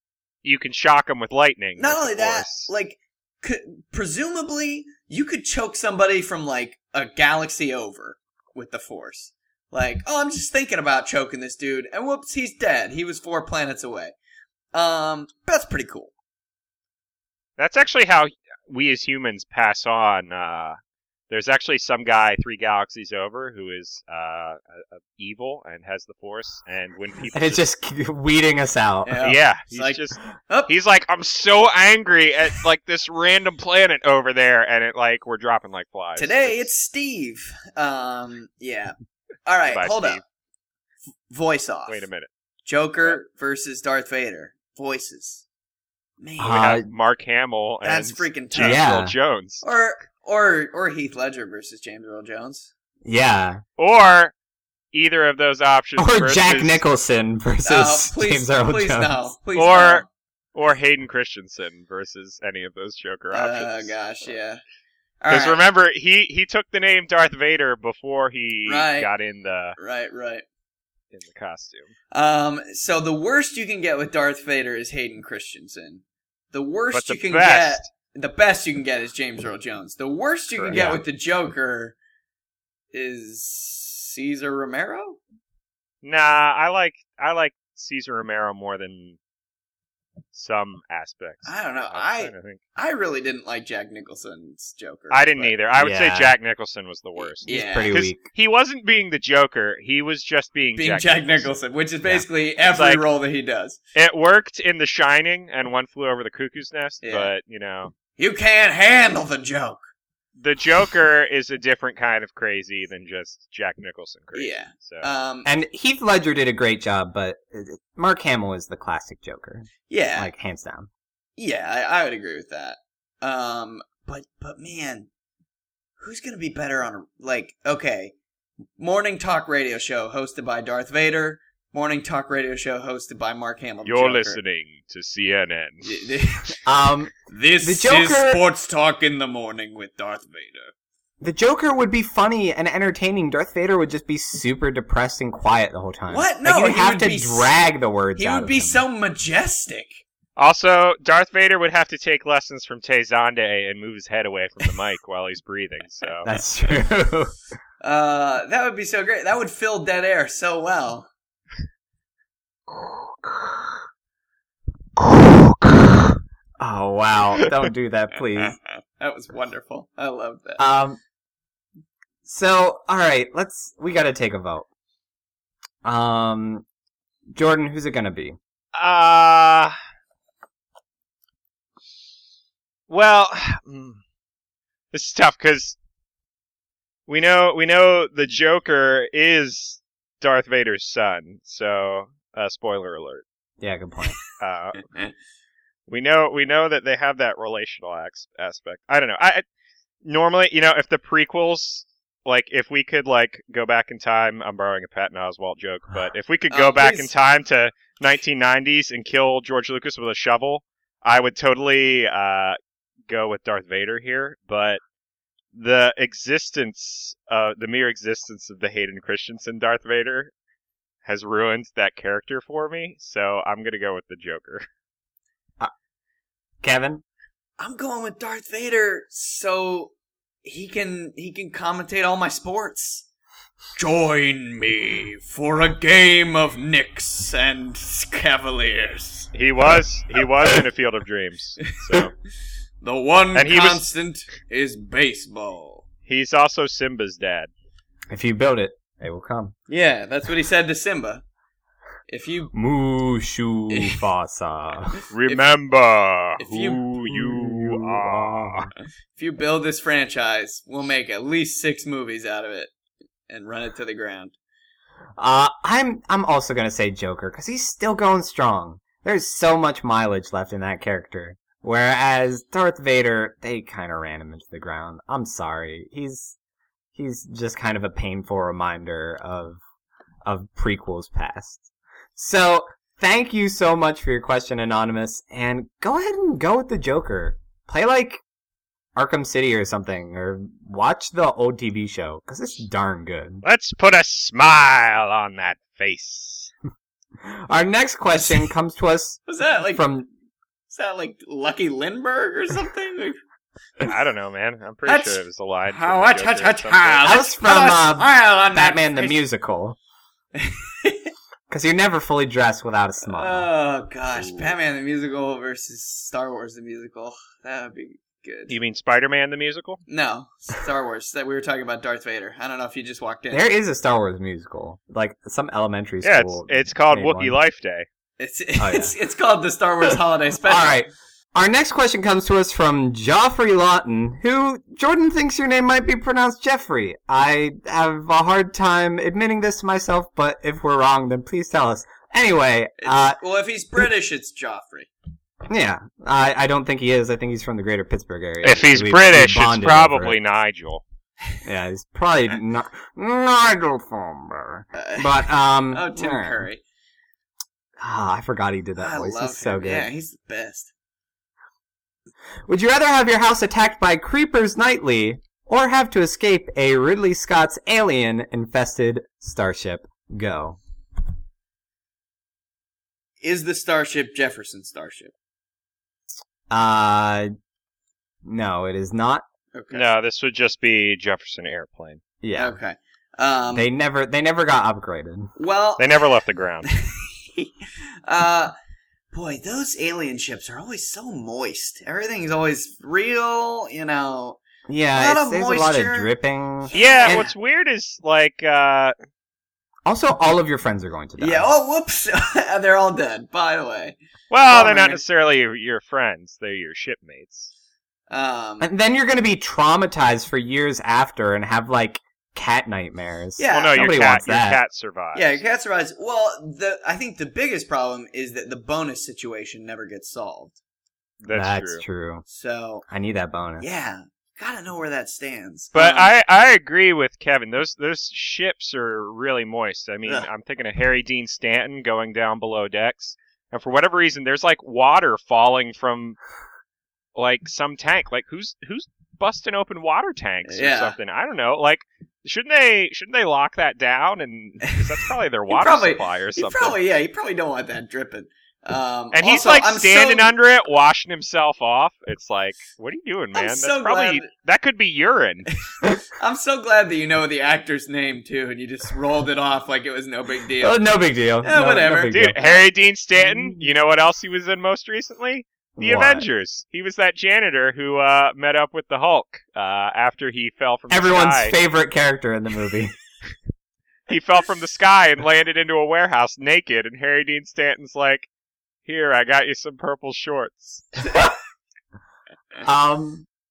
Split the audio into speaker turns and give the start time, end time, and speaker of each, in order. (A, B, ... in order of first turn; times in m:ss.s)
0:00.4-0:02.7 A
0:01.8-0:14.1 B
0:14.7-0:16.1 B
0:17.6-0:20.8 A
0:21.3-0:27.6 A
0:27.3-0:29.2 C
0:29.0-0:30.7 B
0:29.2-0:36.7 A
0:36.2-0:38.9 B
0:39.4-0:40.2 B
0:39.7-0:40.2 A
0:41.3-0:42.0 B
0:41.9-0:42.3 A
0:42.6-0:45.4 B
0:46.2-0:46.8 B
0:46.4-0:46.9 C
0:46.5-0:49.6 A
0:47.8-0:48.8 B
0:48.6-0:49.2 C
0:49.6-0:52.7 B
0:53.0-0:53.6 C
0:53.8-0:54.3 A
0:54.9-0:56.8 A
0:56.0-0:59.2 C
0:57.6-1:00.1 B
0:59.5-1:03.9 A
1:03.3-1:04.6 B
1:05.2-1:05.6 B
1:05.3-1:09.8 A
1:08.6-1:09.1 B
1:09.8-1:10.4 B
1:11.1-1:11.9 A
1:12.1-1:21.9 B
1:16.9-1:17.9 A
1:20.6-1:20.9 A
1:20.7-1:21.0 C
1:22.9-1:25.2 B
1:26.0-1:29.2 A
1:30.3-1:32.6 A
1:31.4-1:35.6 B
1:35.1-1:41.5 A
1:35.8-1:36.4 C
1:37.4-1:38.0 B
1:37.4-1:38.2 C
1:40.8-1:43.8 B
1:42.6-1:43.0 A
1:43.9-1:47.9 A
1:47.0-1:47.3 B
1:48.2-1:49.8 B
1:50.4-1:55.1 A
1:54.3-1:55.5 B
1:55.4-2:00.9 C
1:59.9-2:00.3 B
2:01.4-2:05.1 B
2:06.0-2:08.1 B
2:08.8-2:14.4 B
2:13.8-2:16.1 A
2:15.8-2:16.6 B
2:16.6-2:18.4 C
2:17.3-2:20.7 B
2:21.2-2:28.8 C
2:26.1-2:27.5 B
2:28.2-2:30.0 B
2:30.4-2:36.3 A
2:36.2-2:37.3 C
2:37.8-2:41.1 B
2:46.6-2:48.6 C
2:49.0-2:50.6 B
2:50.6-2:51.0 C
2:52.2-2:54.6 C
2:55.8-2:56.6 C
2:57.3-2:58.4 C
2:58.7-2:59.7 A
3:02.9-3:04.0 A
3:04.9-3:05.8 A
3:07.1-3:13.2 A
3:13.6-3:14.2 C
3:14.4-3:14.9 A
3:15.9-3:19.4 A
3:20.0-3:32.6 A
3:26.5-3:27.1 B
3:33.1-3:34.8 A
3:35.5-3:40.3 A
3:41.0-3:44.6 A
3:46.6-3:47.0 C
3:47.6-3:49.9 B
3:50.4-3:53.0 B
3:53.8-3:59.3 B
3:59.3-4:02.1 A
4:02.8-4:05.8 B
4:03.3-4:03.9 A
4:06.1-4:07.5 A
4:08.1-4:09.5 C
4:09.7-4:11.2 B
4:12.1-4:12.5 B
4:12.5-4:15.0 C
4:13.7-4:14.0 B
4:15.1-4:18.7 A
4:16.4-4:16.8 B
4:17.1-4:18.7 C
4:19.2-4:22.7 B
4:23.3-4:24.3 B
4:25.2-4:36.4 C
4:37.0-4:39.6 C
4:40.2-4:41.6 C
4:42.2-4:48.2 C
4:49.0-4:53.4 C
4:53.4-4:56.5 A
4:57.2-4:59.2 C
4:59.3-4:59.9 B
4:59.7-5:00.1 C
5:00.7-5:03.2 B
5:03.8-5:07.2 A
5:04.8-5:09.2 B
5:07.0-5:09.8 C
5:10.3-5:11.1 B
5:11.5-5:13.5 C
5:13.1-5:18.5 B
5:18.5-5:19.8 A
5:19.9-5:23.4 B
5:23.3-5:27.4 C
5:26.0-5:27.8 A
5:28.2-5:30.8 B
5:28.6-5:28.9 C
5:30.4-5:43.2 C
5:42.8-5:44.9 B
5:45.5-5:50.2 C
5:48.4-5:50.8 A
5:51.4-5:56.5 C
5:54.7-5:56.6 B
5:57.8-5:59.9 C
5:58.8-6:00.7 B
6:02.5-6:10.6 C
6:13.2-6:15.1 B
6:16.5-6:17.3 C
6:18.2-6:19.2 C
6:19.5-6:19.9 B
6:19.7-6:22.0 A
6:22.2-6:22.6 C
6:22.4-6:23.7 B
6:23.5-6:25.3 C
6:25.4-6:25.9 B
6:25.8-6:26.7 A
6:26.6-6:28.5 B
6:29.1-6:34.4 B
6:34.7-6:37.2 C
6:34.9-6:36.1 B
6:36.7-6:37.3 B
6:36.7-6:38.9 A
6:39.8-6:41.5 C
6:41.2-6:44.0 B
6:44.3-6:47.5 A
6:44.5-6:45.0 B
6:48.1-6:48.7 B
6:48.6-6:54.6 C
6:53.4-6:53.9 B
6:53.5-6:55.4 A
6:55.1-7:00.6 B
7:01.2-7:01.8 A
7:01.3-7:02.2 C
7:02.3-7:02.8 B
7:02.9-7:03.6 C
7:03.6-7:06.1 B
7:05.7-7:16.2 A
7:17.1-7:26.8 A
7:20.4-7:21.0 B
7:25.5-7:30.3 B
7:29.1-7:35.5 A
7:33.3-7:34.3 B
7:36.1-7:40.8 B
7:40.6-7:42.4 C
7:41.4-7:42.6 B
7:42.1-7:51.6 A
7:43.4-7:43.6 C
7:45.8-7:46.2 C
7:50.9-7:52.9 C
7:54.1-7:58.3 A
7:58.8-8:01.0 A
8:02.6-8:03.2 C